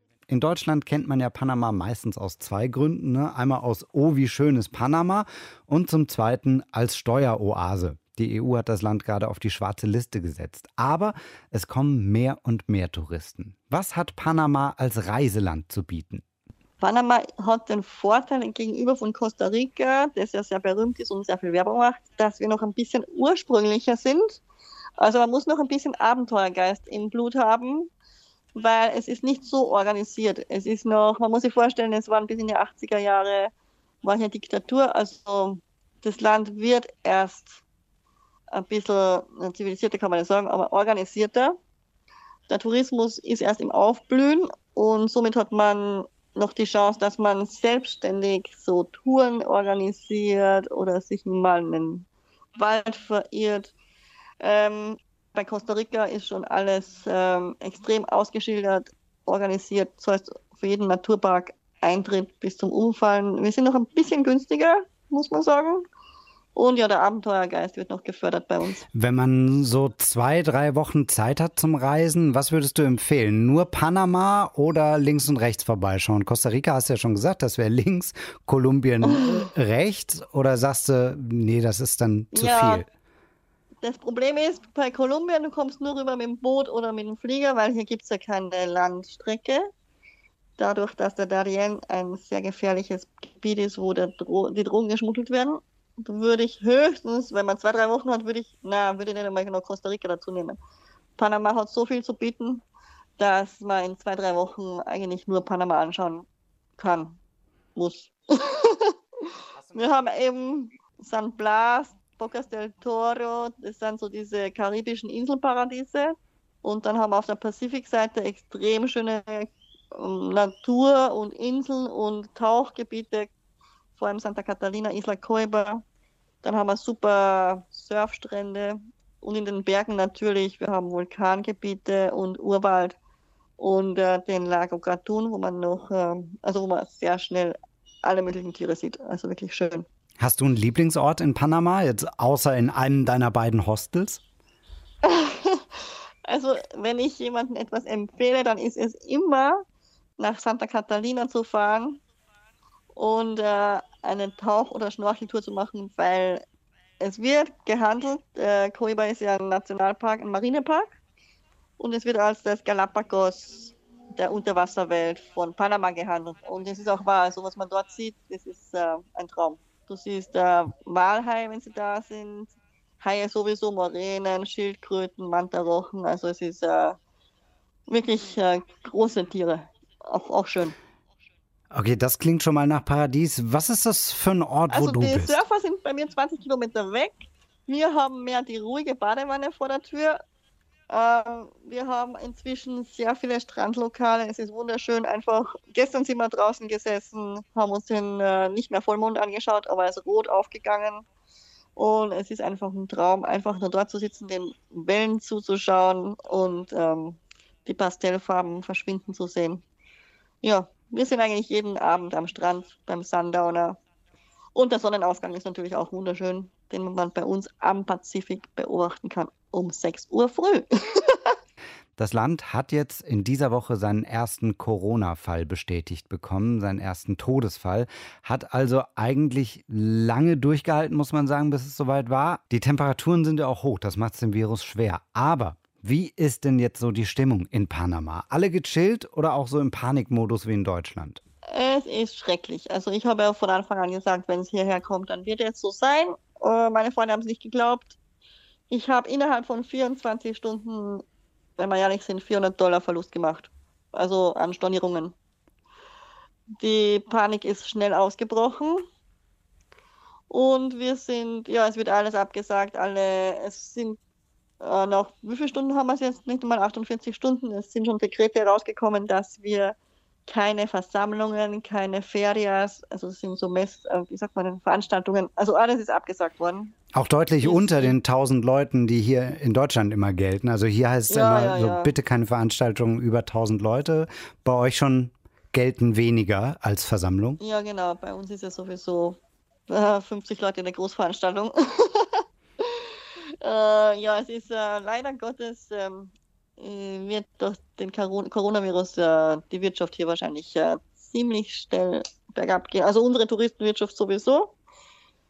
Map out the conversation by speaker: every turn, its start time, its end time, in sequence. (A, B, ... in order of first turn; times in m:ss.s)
0:00.3-0:16.2 A
0:16.8-0:24.4 B
0:25.0-0:27.9 B
0:28.5-0:37.6 B
0:38.5-0:41.6 B
0:42.5-0:53.7 B
0:54.4-1:05.9 B
1:06.5-1:08.8 B
1:08.9-1:22.8 A
1:19.0-1:19.4 B
1:22.3-1:22.8 B
1:23.8-1:29.7 B
1:30.6-1:40.6 B
1:41.2-1:42.6 B
1:43.2-1:46.2 B
1:46.8-1:47.2 B
1:47.8-2:03.3 B
2:03.9-2:05.8 B
2:06.4-2:13.0 B
2:13.6-2:19.8 B
2:20.2-2:24.2 A
2:25.0-2:29.6 B
2:30.2-2:32.0 B
2:32.9-2:36.4 B
2:37.0-2:41.0 B
2:41.8-2:57.0 B
2:57.9-3:00.8 B
3:01.7-3:05.4 A
3:04.7-3:10.2 B
3:10.9-3:21.0 B
3:21.8-3:29.6 B
3:30.4-3:33.8 B
3:34.5-3:41.4 B
3:42.0-4:01.2 A
4:01.5-4:08.0 B
4:08.7-4:11.0 B
4:11.6-4:15.1 B
4:16.6-4:18.8 B
4:20.3-4:24.0 B
4:24.6-4:36.7 B
4:36.9-4:47.4 A
4:37.4-4:38.0 B
4:41.1-4:41.9 B
4:47.4-5:04.5 B